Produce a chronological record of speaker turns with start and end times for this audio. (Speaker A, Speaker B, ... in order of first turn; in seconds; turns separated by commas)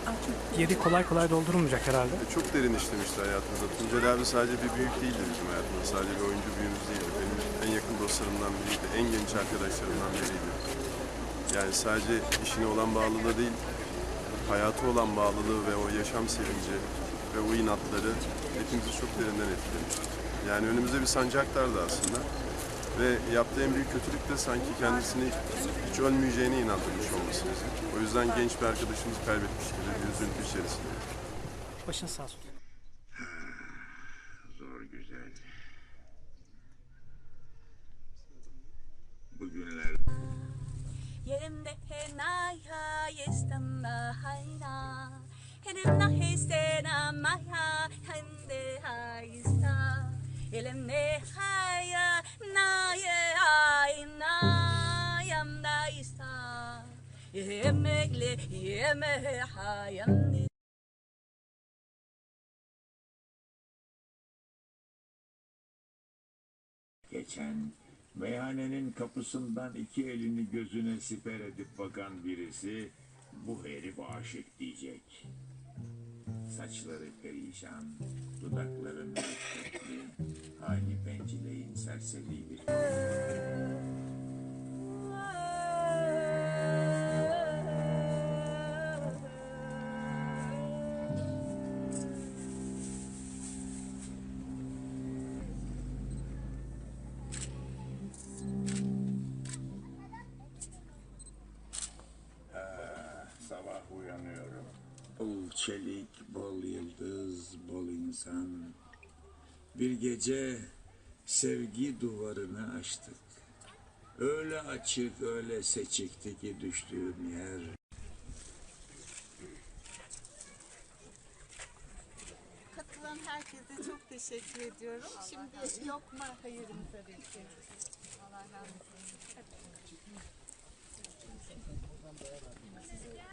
Speaker A: 0.1-2.2, Speaker B: 2.2-10.6, Speaker B: 11.5-13.6, Speaker B: 14.4-22.3, Speaker B: 22.9-31.0, Speaker A: 31.9-32.4, Speaker C: 33.1-35.5, Speaker C: 39.3-40.0, Speaker D: 40.1-60.5, Speaker C: 67.1-75.3, Speaker C: 76.5-82.9, Speaker D: 84.8-89.2, Speaker C: 102.5-108.8, Speaker C: 109.7-110.7, Speaker C: 111.2-113.3, Speaker C: 114.2-117.7, Speaker E: 122.7-127.5